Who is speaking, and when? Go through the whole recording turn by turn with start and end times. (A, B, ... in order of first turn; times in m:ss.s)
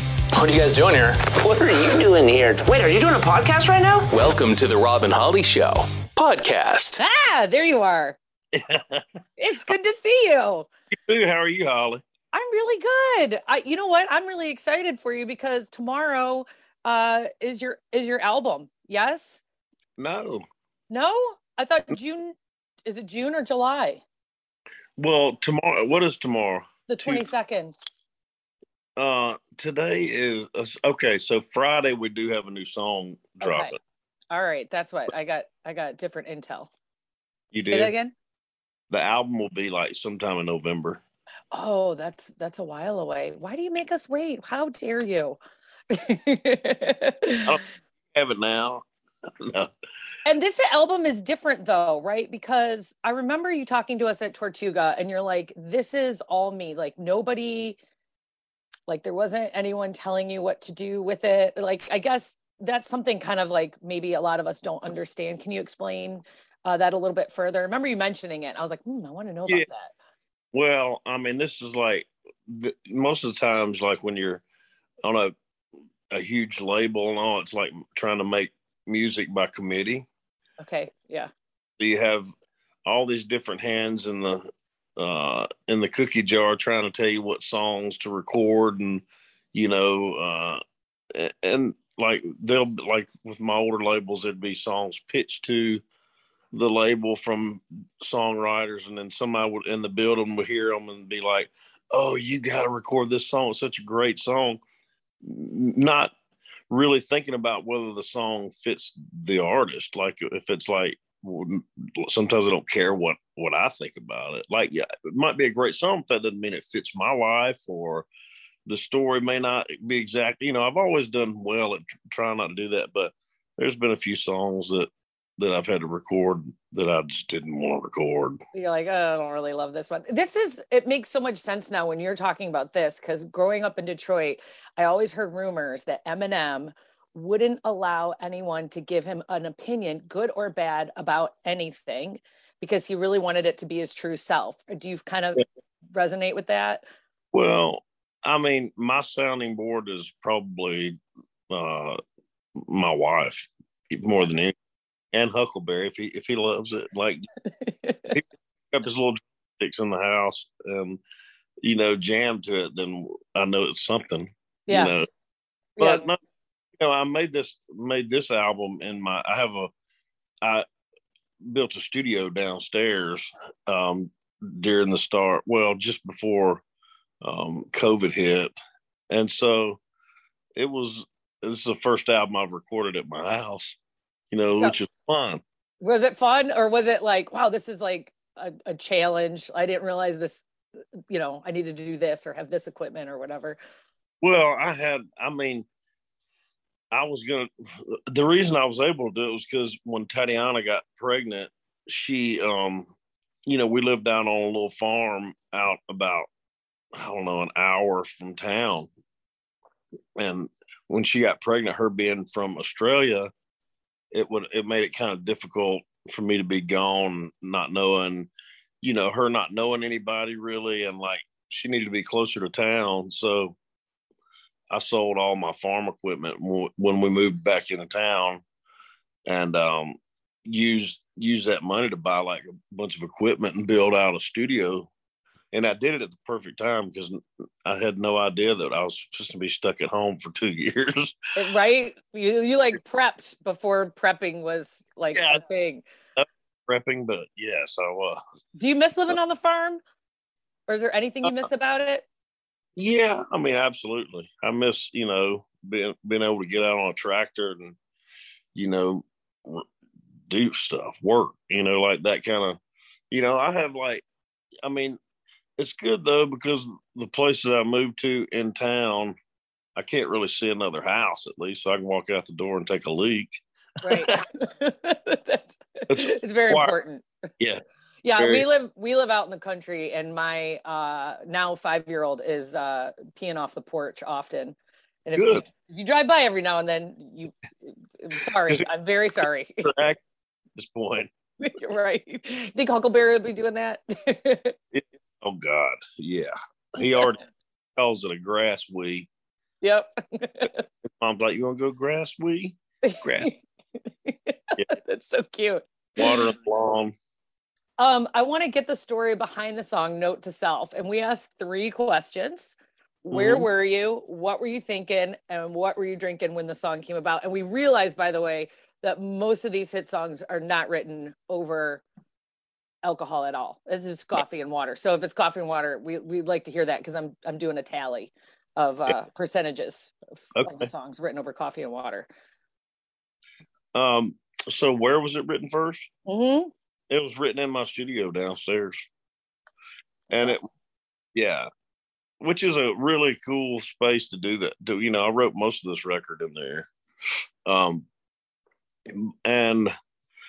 0:00.3-0:01.7 A
0:01.5-0:04.1 B
0:04.1-0:07.0 A
0:07.0-0:08.2 C
0:08.5-0:09.0 D
0:09.4-0:10.7 C
0:10.9-0:12.0 D
0:12.3-0:19.4 C
0:20.0-0:20.4 D
0:20.9-0:24.0 C
0:25.0-0:27.2 D
0:26.9-0:27.7 C
0:29.0-0:33.7 D
0:33.4-0:33.7 C
0:34.3-0:36.7 C
0:37.5-0:37.9 D
0:37.6-0:38.1 C
0:38.9-0:41.0 D
0:41.5-0:45.4 C
0:45.9-0:47.6 C
0:48.1-0:48.8 D
0:49.4-0:49.7 D
0:50.2-0:57.8 C
0:58.9-1:09.9 C
1:10.5-1:14.4 D
1:15.0-1:15.3 D
1:16.1-1:20.0 D
1:20.6-1:21.3 C
1:21.8-1:22.3 D
1:22.8-1:30.6 D
1:31.1-1:35.8 D
1:36.5-1:44.6 D
1:45.2-1:46.1 D
1:46.7-1:58.1 D
1:58.6-2:08.4 D
2:08.5-2:25.4 C
2:25.9-2:26.8 C
2:27.3-2:31.0 D
2:31.5-2:32.0 D
2:32.6-2:34.5 D
2:35.1-2:37.2 D
2:37.6-2:38.1 C
2:38.1-2:41.0 D
2:41.6-2:45.1 D
2:44.7-2:44.9 C
2:45.8-2:46.0 C
2:45.8-2:46.2 D
2:46.8-2:49.7 D
2:51.4-2:56.6 D
2:57.2-2:58.5 D
2:59.1-2:59.8 D
3:00.6-3:03.8 D
3:04.3-3:05.4 D
3:04.5-3:04.8 C
3:05.8-3:10.5 C
3:11.1-3:13.6 C
3:14.2-3:15.6 D
3:16.9-3:22.8 D
3:23.4-3:26.3 D
3:26.9-3:28.9 D
3:30.2-3:33.3 D
3:34.1-3:38.3 D
3:38.8-3:43.6 D
3:44.7-3:48.4 D
3:49.2-3:54.9 D
3:55.5-4:01.2 D
4:01.4-4:05.8 C
4:05.1-4:05.4 D
4:06.2-4:08.2 D
4:08.6-4:09.8 C
4:10.7-4:12.0 C
4:12.8-4:17.8 D
4:18.5-4:19.6 D
4:20.3-4:22.6 D
4:23.1-4:24.0 D
4:24.6-4:25.0 D
4:25.6-4:29.2 D
4:29.8-4:33.3 D
4:33.8-4:37.0 C
4:35.9-4:36.7 D
4:38.0-4:49.7 C
4:38.1-4:38.5 D
4:45.2-4:45.4 D
4:49.6-4:50.0 D
4:50.6-4:51.1 D
4:51.4-4:54.6 C
4:54.7-4:57.2 D
4:57.8-4:59.1 D
4:59.6-5:00.6 C
5:00.8-5:03.3 D
5:02.8-5:03.4 C
5:04.0-5:06.3 C
5:06.0-5:06.9 D
5:07.8-5:21.8 C
5:13.1-5:13.5 D
5:22.8-5:32.1 C
5:30.4-5:30.7 D
5:33.7-5:35.9 D
5:36.1-5:36.5 C
5:36.9-5:38.9 D
5:40.1-5:40.4 D
5:41.1-5:41.5 D
5:42.2-5:46.7 D
5:47.4-5:47.9 D
5:48.9-5:49.7 D